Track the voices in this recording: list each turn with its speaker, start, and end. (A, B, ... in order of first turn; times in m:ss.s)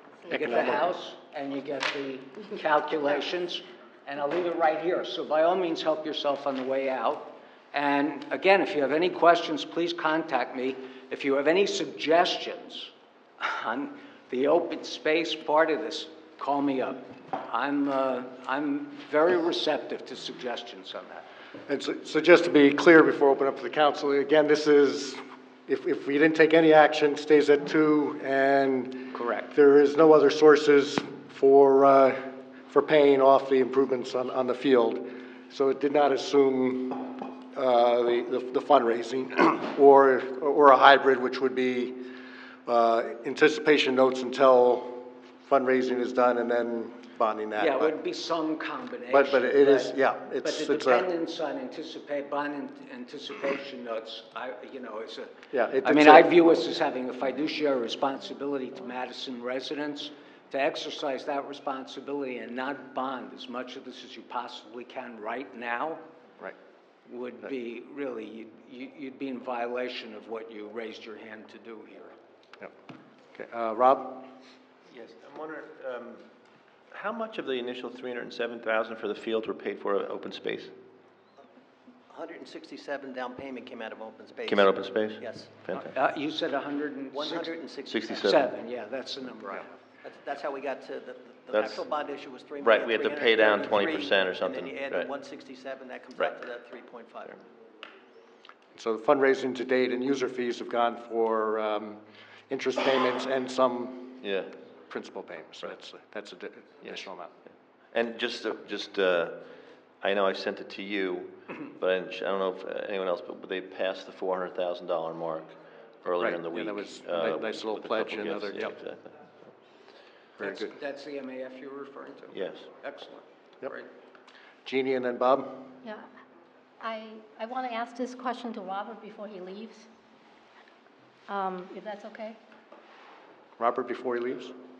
0:00.3-0:21.3 A
0:00.3-0:00.8 B
0:21.7-0:42.1 B
0:29.1-0:29.5 A
0:42.6-0:48.0 B
0:47.6-1:06.0 A
0:49.1-0:51.1 B
0:55.5-0:56.3 B
1:07.0-1:12.2 A
1:13.3-1:14.2 B
1:14.9-1:16.2 C
1:16.9-1:20.7 C
1:22.1-1:25.9 D
1:24.4-1:25.9 C
1:25.9-1:29.7 A
1:27.1-1:28.3 D
1:27.9-1:28.5 C
1:30.0-1:37.4 D
1:31.5-1:31.8 C
1:32.6-1:35.1 C
1:36.2-1:36.4 C
1:38.7-1:44.2 B
1:44.1-1:44.5 C
1:44.9-1:47.3 B
1:47.9-1:59.2 C
1:56.2-1:58.8 B
2:00.4-2:00.7 B
2:00.4-2:03.9 A
2:02.3-2:02.6 C
2:04.6-2:05.7 B
2:06.8-2:09.9 E
2:11.3-2:12.4 E
2:13.6-2:14.5 B